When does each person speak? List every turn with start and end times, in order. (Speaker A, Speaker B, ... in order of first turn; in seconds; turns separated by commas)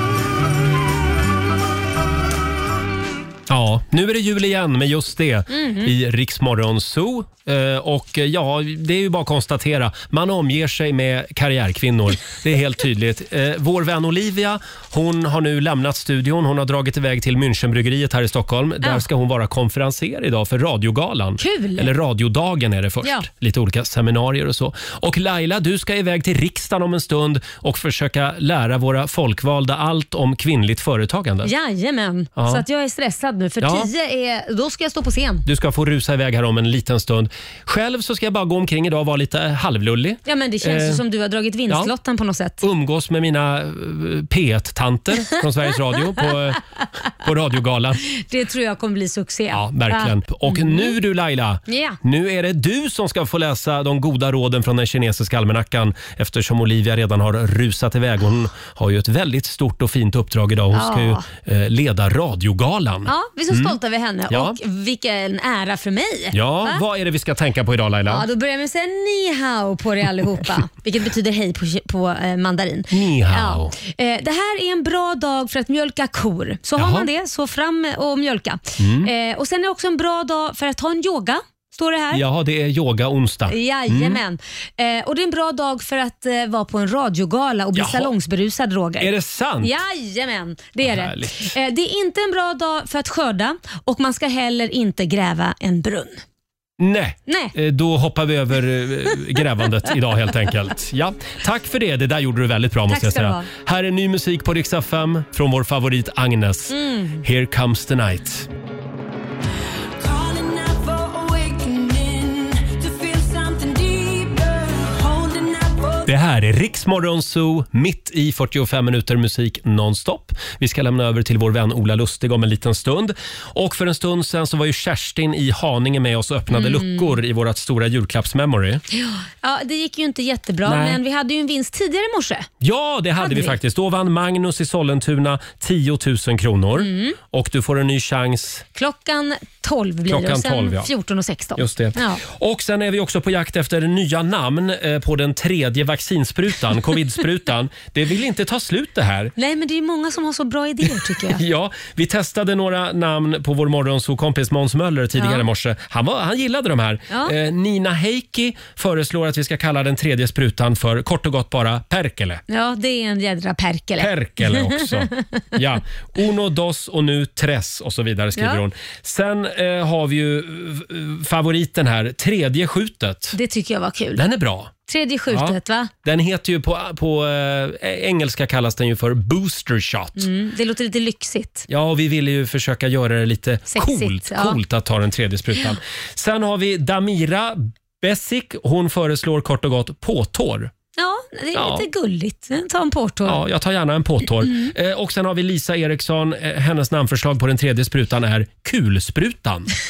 Speaker A: 3.5-31.5, Speaker B: 5.5-5.9, Speaker B: 21.4-21.9, Speaker B: 31.4-35.5, Speaker A: 32.4-32.6, Speaker A: 33.6-33.9, Speaker A: 35.5-41.0, Speaker B: 40.3-42.6, Speaker A: 42.6-48.0, Speaker B: 48.1-51.0, Speaker A: 49.5-63.8, Speaker B: 51.7-52.0, Speaker B: 60.7-61.2, Speaker B: 63.1-66.8, Speaker A: 64.3-64.6, Speaker A: 66.3-68.2, Speaker B: 68.1-82.2, Speaker A: 72.9-73.8, Speaker A: 76.8-77.1, Speaker A: 78.8-79.1, Speaker A: 82.1-84.2, Speaker B: 83.5-89.1, Speaker A: 87.8-88.1, Speaker A: 89.0-89.8, Speaker B: 89.6-96.2, Speaker A: 90.8-91.5, Speaker A: 96.8-108.5, Speaker B: 97.3-97.5, Speaker B: 102.9-103.5, Speaker B: 106.7-107.2, Speaker C: 110.0-116.1, Speaker A: 116.1-128.8, Speaker B: 126.5-127.1, Speaker B: 128.9-132.5, Speaker A: 130.7-131.0, Speaker A: 132.6-138.7, Speaker B: 133.2-133.6, Speaker B: 136.8-137.2, Speaker B: 138.8-142.2, Speaker A: 140.1-140.9, Speaker A: 141.6-149.3, Speaker B: 149.4-151.4, Speaker A: 151.3-162.4, Speaker B: 155.2-155.4, Speaker B: 162.5-165.3, Speaker A: 164.0-173.4, Speaker B: 168.4-168.6, Speaker B: 173.3-174.2, Speaker A: 174.2-174.7, Speaker B: 174.9-175.9, Speaker A: 175.3-180.3, Speaker B: 180.2-181.7, Speaker A: 181.7-190.7, Speaker B: 183.7-184.6, Speaker B: 191.0-193.4, Speaker A: 191.5-191.9, Speaker A: 193.3-199.7, Speaker B: 194.5-194.7